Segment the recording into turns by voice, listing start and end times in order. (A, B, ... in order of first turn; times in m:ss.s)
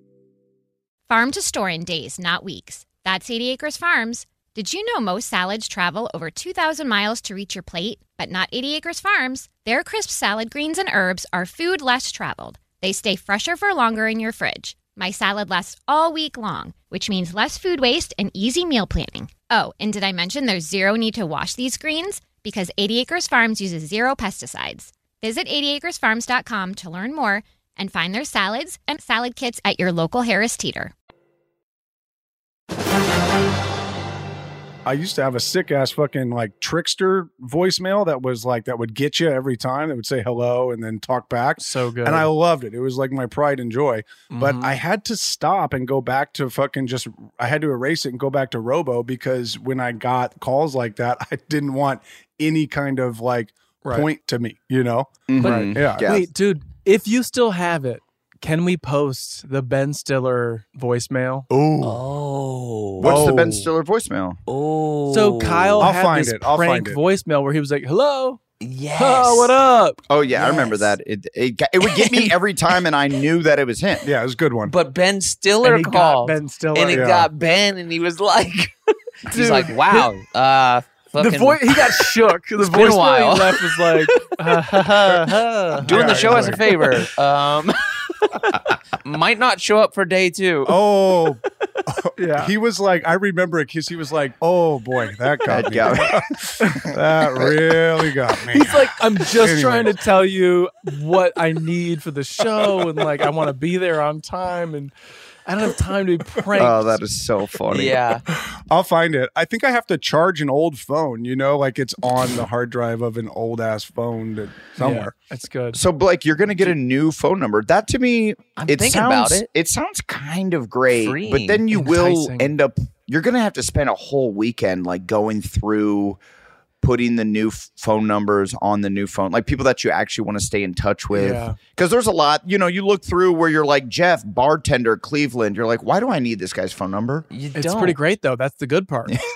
0:01.1-0:30.9 A
0:34.8-0:56.0 B
0:41.6-0:42.3 C
0:44.3-0:44.8 C
0:55.3-0:56.3 D
0:55.4-1:01.5 C
1:01.5-1:02.0 B
1:01.8-1:03.2 E
1:03.0-1:04.4 D
1:03.0-1:03.7 B
1:04.5-1:05.9 E
1:05.1-1:08.4 C
1:05.8-1:07.0 B
1:08.6-1:09.6 E
1:09.0-1:10.8 C
1:10.1-1:14.1 D
1:12.0-1:12.3 C
1:14.0-1:14.7 B
1:14.6-1:18.7 E
1:15.6-1:17.2 C
1:16.9-1:17.3 B
1:19.3-1:20.1 C
1:19.3-1:24.2 E
1:21.2-1:27.0 C
1:24.7-1:25.3 E
1:25.8-1:26.6 B
1:25.8-1:30.8 E
1:30.6-1:40.0 B
1:32.2-1:32.5 C
1:35.5-1:37.5 D
1:38.3-1:44.9 C
1:45.4-1:47.0 C
1:46.6-1:48.0 D
1:47.7-1:48.2 E
1:48.7-1:55.1 B
1:54.7-1:55.8 C
1:55.7-2:06.2 D
1:58.6-1:59.5 E
2:00.9-2:01.6 E
2:01.7-2:02.5 C
2:06.8-2:17.3 D
2:11.1-2:11.6 C
2:17.3-2:18.0 E
2:17.5-2:19.1 C